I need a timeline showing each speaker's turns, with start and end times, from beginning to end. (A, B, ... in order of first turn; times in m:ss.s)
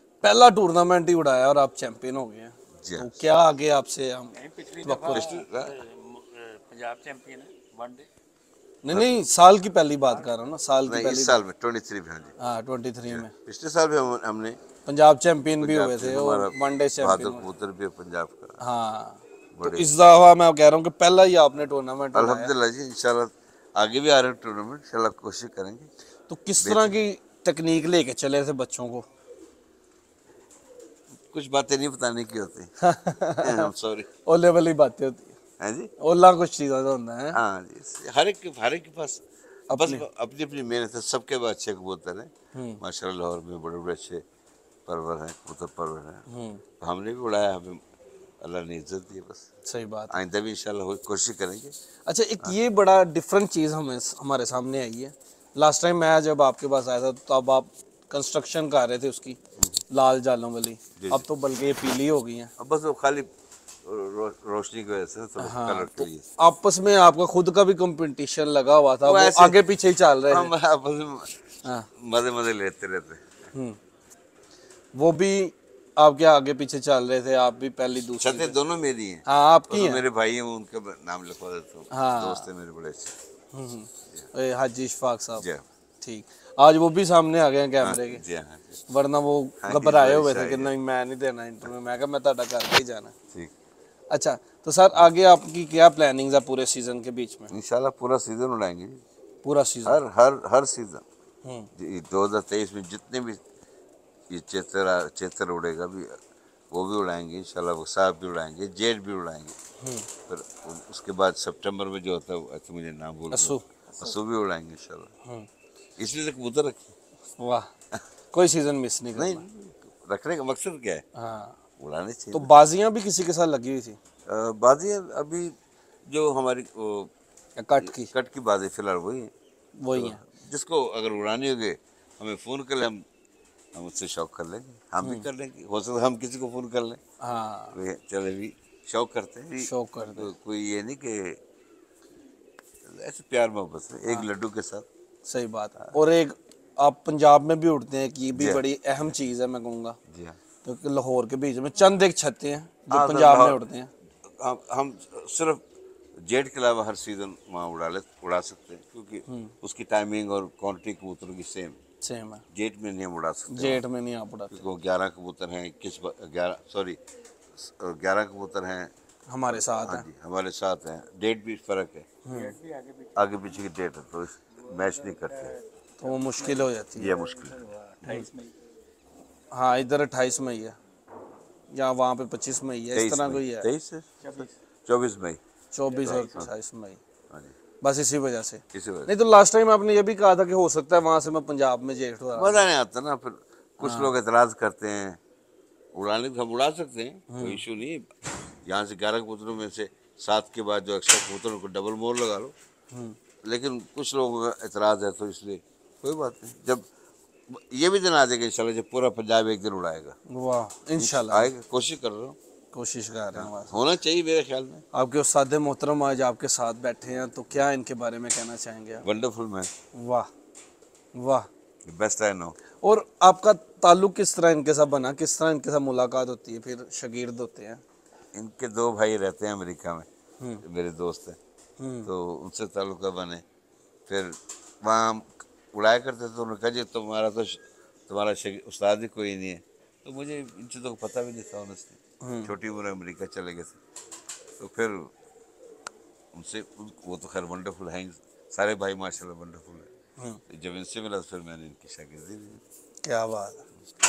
0:00.2-0:05.4 A
0:02.8-0:03.2 B
0:04.4-0:08.1 C
0:05.1-0:05.8 B
0:08.8-0:11.4 A
0:10.1-0:10.4 C
0:10.8-0:12.4 B
0:12.4-0:13.3 A
0:13.1-0:14.6 B
0:14.8-0:17.4 A
0:15.6-0:18.6 B
0:18.6-0:22.5 A
0:19.6-0:19.9 B
0:22.1-0:25.9 B
0:26.3-0:29.1 A
0:26.6-0:27.0 B
0:31.3-0:32.7 B
0:32.8-0:33.7 A
0:33.4-0:34.1 B
0:34.3-0:35.4 A
0:35.6-0:35.9 B
0:36.0-0:37.4 A
0:37.3-0:44.2 B
0:39.7-0:40.0 A
0:42.5-0:42.8 A
0:44.9-0:46.2 B
0:46.3-0:46.6 A
0:46.8-0:47.8 B
0:48.4-0:49.5 B
0:49.7-0:50.1 A
0:50.1-0:51.7 B
0:52.1-0:59.4 A
0:59.9-1:02.5 A
1:02.6-1:03.3 B
1:03.8-1:06.4 B
1:05.4-1:10.5 A
1:09.0-1:09.7 B
1:10.3-1:11.4 B
1:12.0-1:13.2 B
1:15.0-1:18.6 A
1:18.2-1:23.2 B
1:19.3-1:20.0 A
1:21.9-1:22.5 A
1:23.5-1:25.4 A
1:25.4-1:25.6 B
1:26.0-1:28.2 A
1:27.8-1:28.8 B
1:28.9-1:33.1 A
1:29.6-1:30.7 B
1:34.1-1:37.5 A
1:37.5-1:39.0 B
1:39.4-1:40.0 A
1:39.9-1:41.0 B
1:41.4-1:41.7 A
1:41.8-1:43.4 B
1:44.3-1:46.2 B
1:46.7-1:49.6 B
1:49.8-1:50.1 A
1:50.3-1:55.1 B
1:53.3-1:53.6 A
1:56.0-1:56.9 B
1:57.4-1:57.7 A
1:58.3-1:59.4 A
1:59.2-2:01.0 B
2:01.2-2:01.6 A
2:01.8-2:02.5 B
2:02.3-2:04.0 A
2:04.3-2:05.5 B
2:06.1-2:07.1 B
2:07.6-2:08.1 A
2:07.8-2:09.3 B
2:09.8-2:10.2 A
2:09.9-2:13.0 B
2:13.7-2:17.0 B
2:17.2-2:17.8 A
2:17.7-2:21.4 B
2:19.6-2:20.3 A
2:22.8-2:24.8 B
2:25.3-2:30.0 A
2:28.4-2:28.6 B
2:30.1-2:30.4 B
2:30.6-2:33.9 A
2:32.9-2:33.6 B
2:34.4-2:35.6 B
2:36.2-2:41.8 B
2:39.3-2:39.5 A
2:42.0-2:42.4 A
2:42.5-2:43.8 B
2:43.5-2:44.6 A
2:44.5-2:47.0 B
2:47.6-2:48.9 B
2:49.3-2:50.0 A
2:49.6-2:52.2 B
2:52.2-2:52.5 A
2:52.3-2:53.4 C
2:53.2-2:55.5 B
2:54.6-2:58.5 C
2:56.0-2:57.1 A
2:57.0-2:57.6 B
2:59.5-3:00.8 A
3:01.7-3:03.7 A
3:02.9-3:04.3 B
3:04.2-3:04.5 C
3:04.9-3:05.4 B
3:05.7-3:07.0 A
3:06.0-3:06.2 C
3:06.0-3:06.5 B
3:07.8-3:12.6 A
3:08.7-3:09.1 B
3:12.4-3:15.2 B
3:13.8-3:14.1 A
3:15.9-3:18.1 B
3:17.3-3:17.6 A
3:18.6-3:22.5 B
3:22.9-3:23.2 A
3:23.4-3:26.8 B
3:27.5-3:30.2 B
3:30.3-3:31.5 A
3:31.0-3:32.4 B
3:32.7-3:33.8 A
3:33.3-3:34.8 B
3:34.9-3:39.0 A
3:39.0-3:39.7 B
3:39.9-3:40.3 A
3:41.1-3:41.5 A
3:41.9-3:42.6 B
3:42.8-3:47.8 A
3:48.3-3:50.1 B
3:50.6-3:51.4 B
3:51.8-3:52.1 A
3:52.0-3:53.4 B
3:54.1-4:03.8 B
4:02.2-4:02.5 A
4:04.6-4:05.1 B
4:06.3-4:09.9 B
4:10.5-4:12.6 B
4:13.0-4:13.6 A